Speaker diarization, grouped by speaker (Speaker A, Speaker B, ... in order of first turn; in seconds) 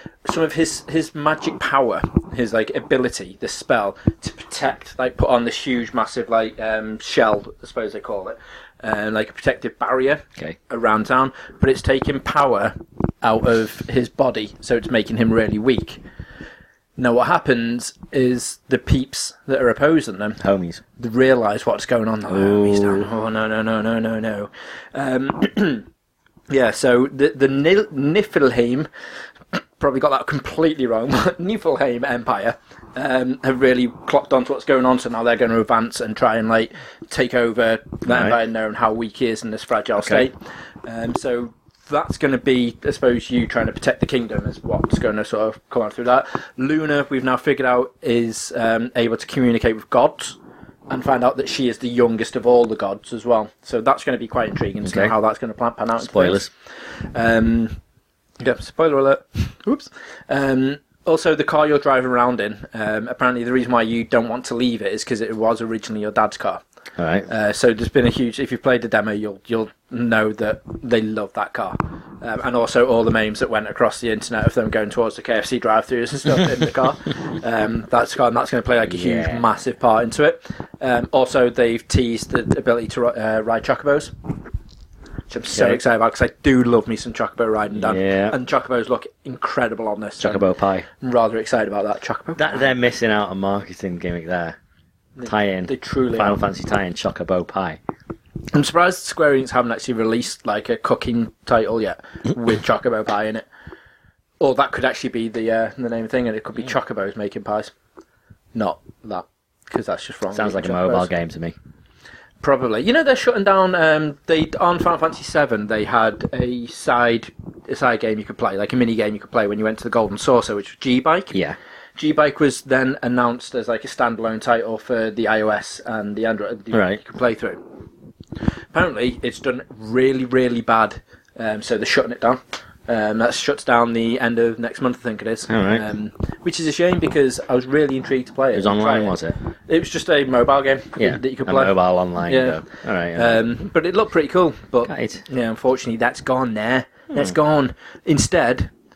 Speaker A: 0.3-16.0, 17.0-20.4, 21.0-25.9, 26.5-28.9, 29.5-50.4, 50.9-56.5, 57.1-57.8, 58.4-66.6, 67.3-84.1, 85.3-92.7, 95.2-96.4, 98.5-103.5, 104.4-107.7, 108.5-111.1, 112.4-121.4, 122.0-127.6, 128.7-148.7
Speaker B: 20.4-20.8, 22.3-23.1, 38.1-38.4, 40.0-40.3, 54.8-55.1, 56.0-56.5, 67.0-67.3, 78.9-79.5, 85.5-85.8, 87.7-88.4, 90.2-90.9, 92.4-94.6, 95.3-97.8, 110.3-111.6, 121.3-121.6, 126.7-127.0, 135.5-135.8, 138.5-139.4, 141.0-143.4, 144.9-145.2